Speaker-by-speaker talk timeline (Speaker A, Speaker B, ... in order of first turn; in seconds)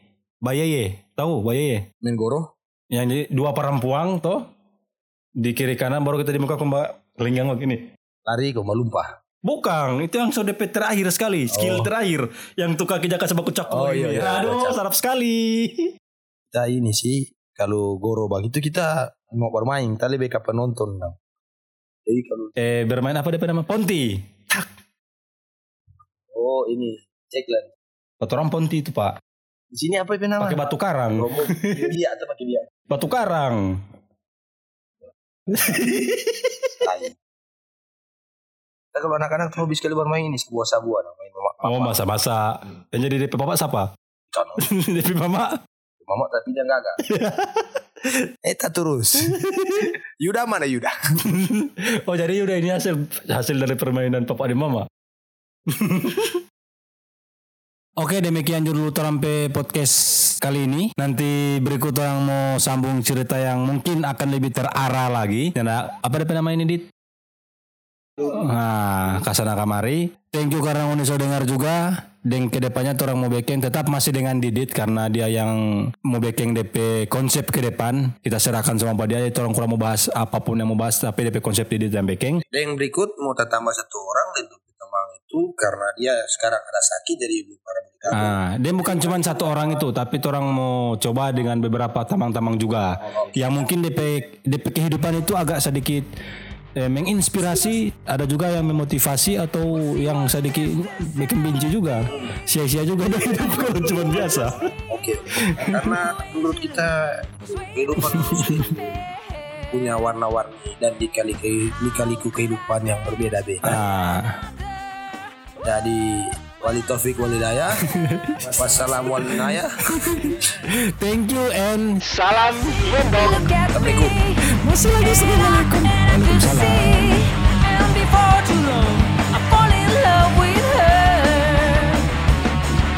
Speaker A: 0.4-1.9, 2.9-4.5, 5.4-7.9, 9.4-15.9, 22.6-24.7, 28.2-29.1, 30.4-31.9, 32.9-33.8, 35.5-36.9, 41.6-43.9, 44.6-45.6, 47.0-48.3, 49.2-49.9, 51.2-54.9, 55.7-56.4, 58.0-66.8, 68.2-82.4, 88.1-96.1, 96.8-104.7, 105.4-106.0, 108.1-108.7, 113.6-114.4, 117.9-118.6, 119.2-123.5, 124.5-127.2
Speaker B: 2.0-2.5, 8.3-9.1, 11.5-11.9, 13.7-14.8, 16.5-21.2, 22.1-22.6, 26.3-27.7, 29.7-32.7, 36.8-37.2, 38.9-42.0, 44.3-44.7, 46.0-47.0, 48.4-51.2, 82.5-89.5, 104.9-109.1, 109.7-113.8, 115.6-117.8, 118.4-120.3, 123.7-124.2
Speaker C: 122.5-132.1